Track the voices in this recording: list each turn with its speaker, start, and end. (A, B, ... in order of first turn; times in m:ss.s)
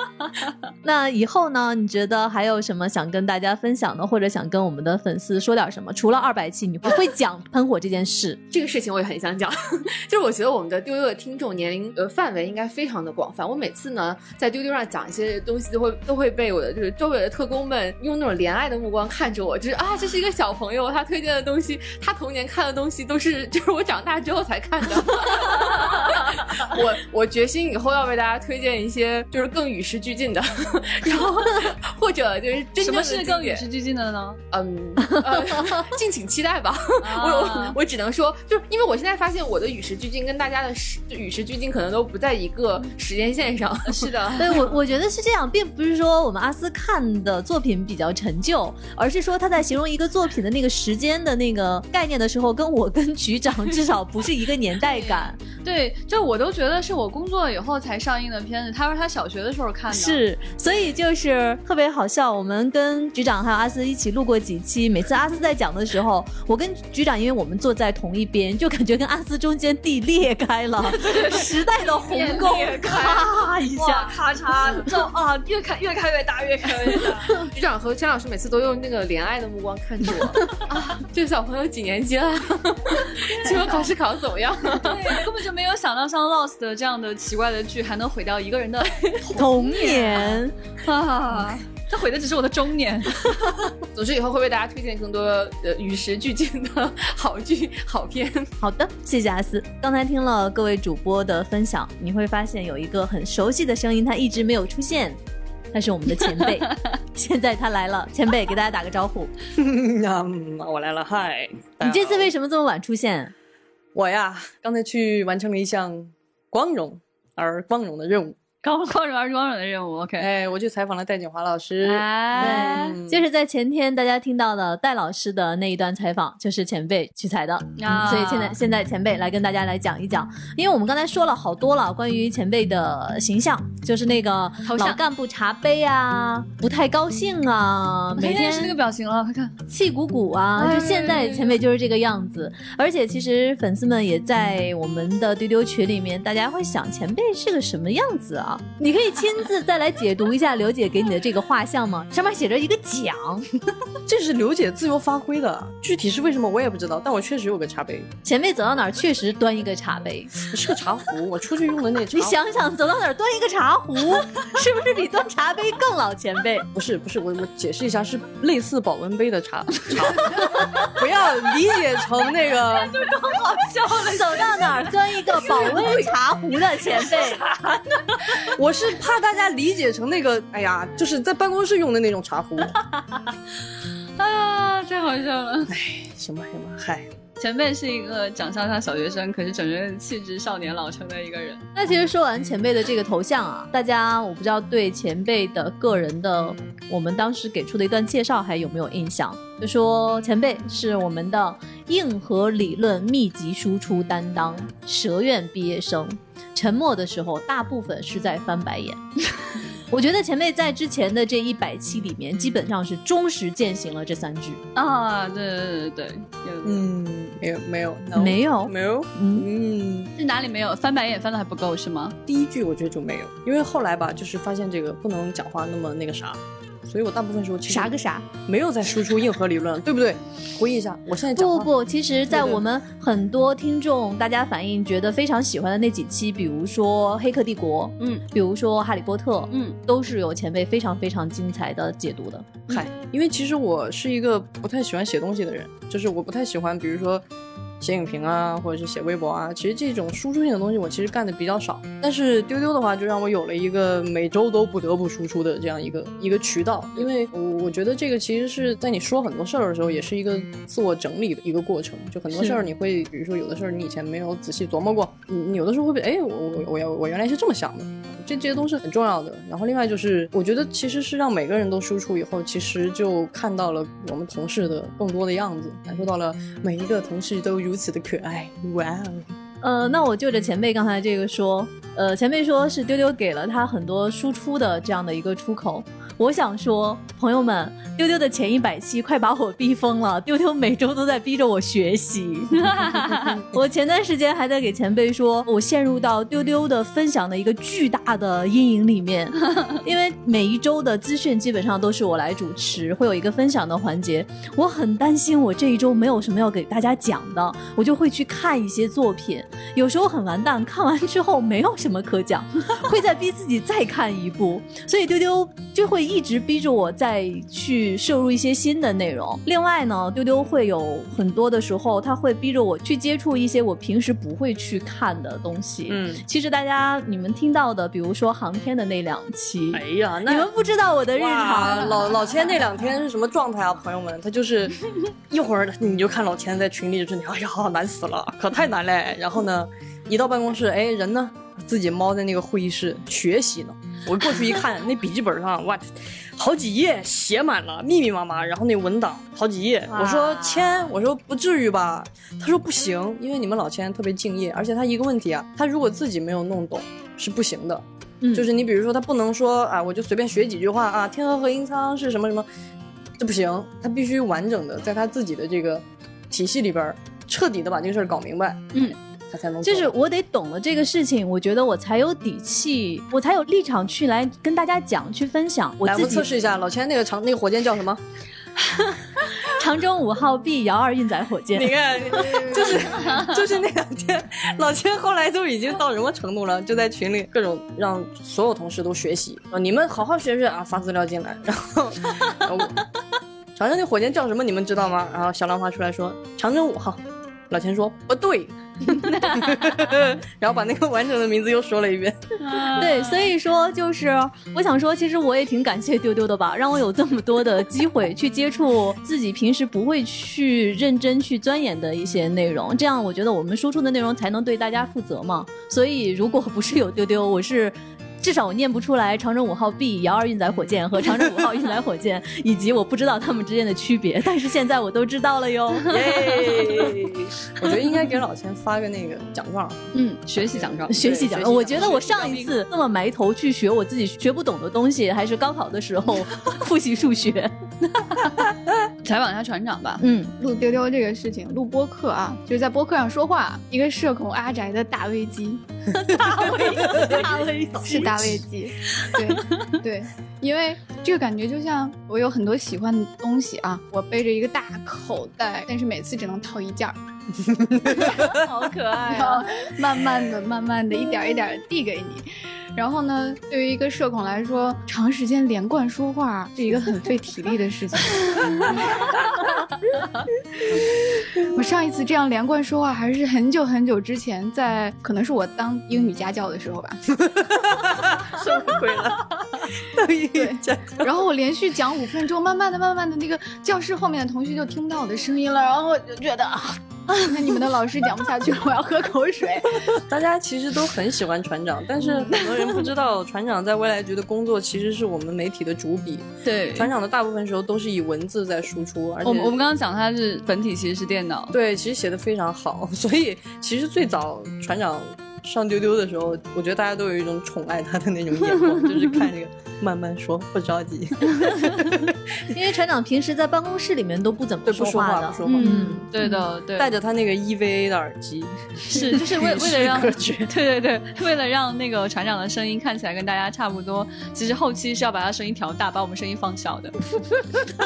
0:00.8-0:08.4 A
0:08.5-0:33.6 B
0:32.8-0:34.4 C
0:34.5-0:44.6 B
0:37.0-0:37.8 C
0:43.8-0:44.7 C
0:44.4-0:55.4 A
0:54.9-1:00.2 C
0:59.9-1:14.1 A
1:10.9-1:17.4 C
1:17.2-1:25.2 B
1:23.4-1:23.9 C
1:24.7-1:33.5 C
1:29.3-1:30.5 A
1:33.9-1:38.5 B
1:38.6-1:45.2 A
1:45.7-1:49.3 A
1:49.5-1:52.3 D
1:51.8-1:53.3 A
1:53.9-1:58.4 D
1:58.6-2:00.3 C
2:00.2-2:03.2 D
2:01.8-2:03.0 C
2:02.4-2:18.8 A
2:07.8-2:08.6 C
2:14.6-2:15.0 C
2:18.2-2:19.6 C
2:19.7-2:33.5 A
2:20.6-2:21.6 C
2:34.0-2:38.1 D
2:38.2-2:40.4 A
2:40.4-2:42.4 D
2:42.1-2:46.7 A
2:46.7-2:52.9 D
2:52.5-2:56.1 C
2:53.8-2:57.4 A
2:57.0-2:58.4 C
2:58.4-3:02.7 D
3:02.9-3:03.2 C
3:04.2-3:05.7 C
3:05.7-3:07.1 D
3:07.4-3:11.7 C
3:11.7-3:29.0 A
3:29.9-3:34.6 A
3:34.7-3:36.9 C
3:36.6-3:40.1 D
3:38.1-3:39.5 A
3:40.2-3:42.2 C
3:42.2-3:51.7 D
3:47.8-3:48.0 A
3:51.3-4:02.6 A
3:52.3-3:52.6 D
3:59.5-3:59.8 C
4:02.7-4:07.2 D
4:07.8-4:39.3 D
4:22.3-4:22.7 A
4:39.6-5:32.2 A
4:52.7-4:53.3 C
5:25.9-5:26.2 D
5:29.7-5:30.5 D
5:31.1-6:02.5 D
5:49.9-5:50.8 C
5:58.2-5:58.5 A
6:03.2-6:09.9 D
6:09.6-6:16.3 A
6:15.8-6:18.0 D
6:19.4-6:22.8 A
6:21.5-6:32.8 D
6:33.6-6:42.2 D
6:38.9-6:39.7 C
6:42.4-6:43.3 C
6:42.6-7:06.4 A
7:05.9-7:09.8 D
7:09.9-7:11.1 C
7:10.5-7:12.3 D
7:10.9-7:17.5 A
7:11.7-7:12.4 C
7:18.0-7:18.4 C
7:19.0-7:20.0 C
7:20.0-7:20.3 A
7:20.4-7:25.6 E
7:26.1-7:28.0 C
7:27.8-7:37.0 E
7:27.9-7:28.2 D
7:38.0-7:39.5 C
7:39.0-7:48.7 E
7:50.7-7:57.0 E
7:57.4-7:59.2 D
7:59.9-8:01.1 D
8:00.3-8:10.0 E
8:10.1-8:19.6 D
8:16.4-8:16.9 C
8:19.2-8:21.5 C
8:21.5-8:32.1 D
8:28.6-8:29.1 C
8:32.5-8:36.0 A
8:34.6-8:36.0 D
8:35.5-8:36.9 C
8:36.8-8:40.5 D
8:38.9-8:46.9 C